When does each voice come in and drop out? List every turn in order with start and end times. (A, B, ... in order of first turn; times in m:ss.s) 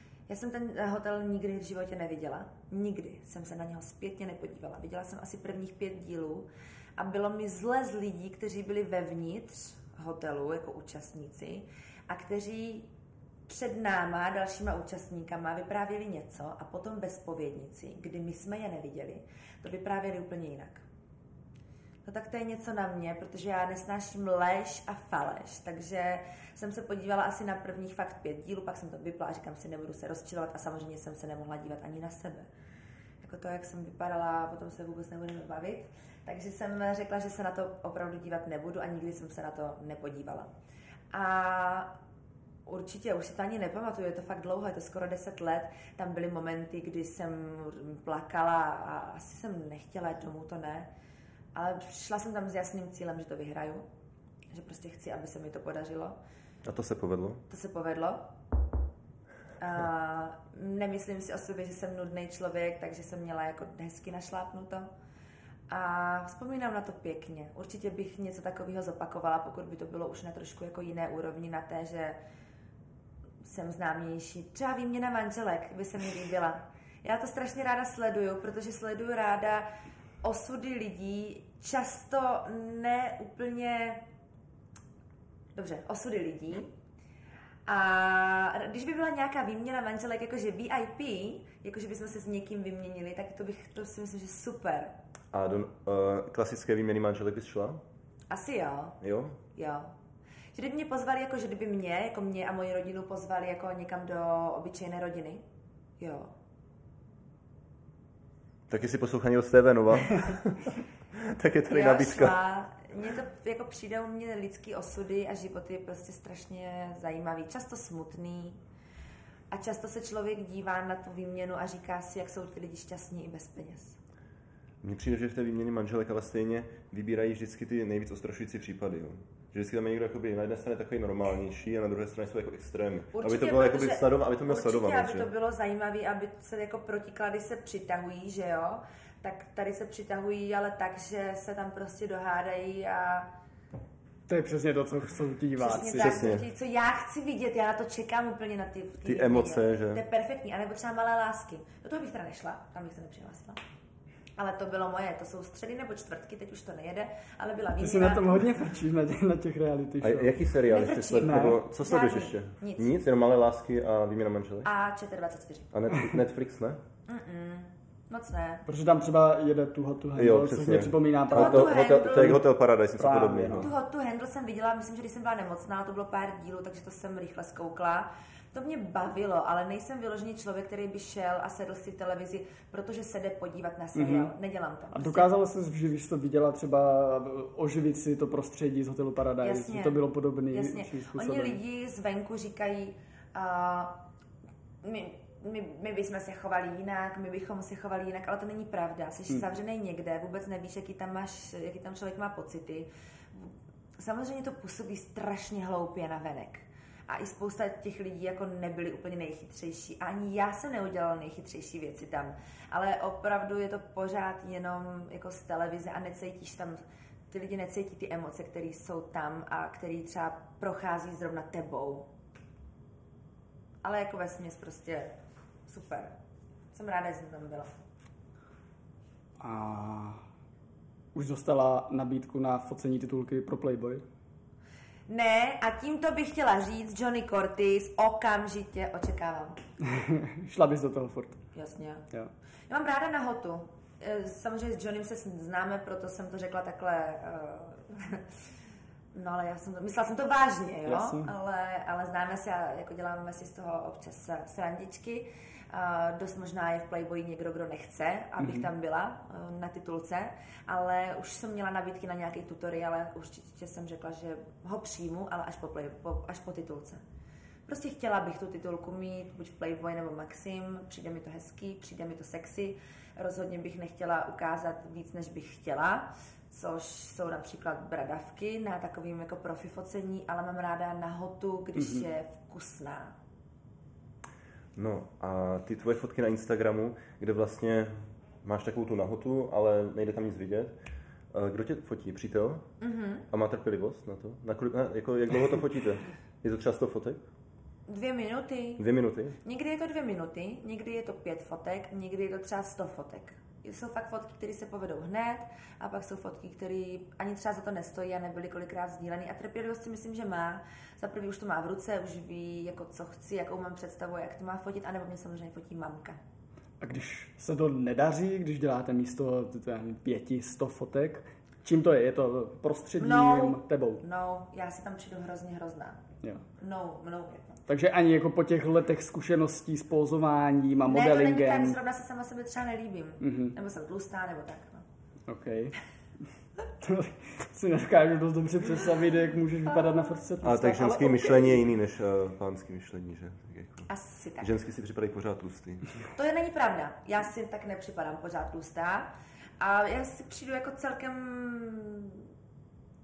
0:00.3-0:12.9 A
0:13.5-0:20.8 A
0:22.0-0:32.5 A
0:33.2-0:40.5 A
0:41.1-0:41.9 A
0:42.7-0:50.9 A
0:51.5-0:53.8 A
0:54.5-0:56.2 A
0:56.6-0:57.4 B
0:57.5-0:58.2 A
0:59.6-1:04.9 A
1:05.7-1:12.2 A
1:13.4-1:19.7 A
1:20.2-1:24.0 A
1:25.6-1:26.7 A
1:27.7-1:34.9 A
1:35.3-1:37.8 B
1:38.3-1:39.0 A
1:39.0-1:39.4 B
1:39.6-1:39.9 A
1:40.5-1:45.4 A
1:46.0-1:46.3 A
1:48.7-1:52.4 B
1:51.7-1:58.6 A
1:59.5-2:04.0 A
2:04.8-2:15.3 B
2:13.1-2:23.3 A
2:24.3-2:26.3 C
2:25.6-2:33.6 A
2:25.9-2:26.5 B
2:29.0-2:30.0 B
2:34.4-2:38.4 A
2:37.8-2:40.4 C
2:40.0-2:44.7 B
2:40.7-2:42.9 A
2:41.2-2:41.6 C
2:44.6-2:45.7 A
2:45.7-2:46.8 B
2:47.1-2:48.6 A
2:48.7-2:52.4 C
2:50.2-2:53.7 B
2:51.3-2:52.4 A
2:53.0-2:53.7 C
2:53.6-3:05.3 A
3:04.0-3:04.3 C
3:04.9-3:11.6 C
3:09.4-3:14.0 A
3:14.8-3:42.1 A
3:43.8-3:45.1 A
3:45.7-3:46.1 A
3:46.7-3:47.7 A
3:49.4-3:50.2 C
3:51.1-3:54.0 C
3:55.1-3:59.6 A
3:59.8-4:01.4 C
4:01.6-4:02.0 A
4:02.7-4:08.3 A
4:09.1-4:27.0 A
4:10.9-4:11.3 C
4:18.4-4:18.7 C
4:27.7-4:43.1 A
4:41.8-4:42.1 C
4:44.8-4:50.7 B
4:51.3-4:52.7 B
4:52.8-4:53.3 A
4:53.3-4:57.2 B
4:57.9-4:58.9 A
4:58.8-4:59.4 B
4:59.4-5:16.2 A
5:16.8-5:24.0 C
5:23.0-5:26.0 A
5:26.6-5:27.6 A
5:27.7-5:31.8 C
5:30.9-5:34.9 A
5:33.2-5:33.6 C
5:35.3-5:35.8 C
5:36.8-5:41.6 C
5:40.4-5:43.9 B
5:43.9-5:44.5 A
5:44.4-5:46.0 B
5:46.2-5:52.3 A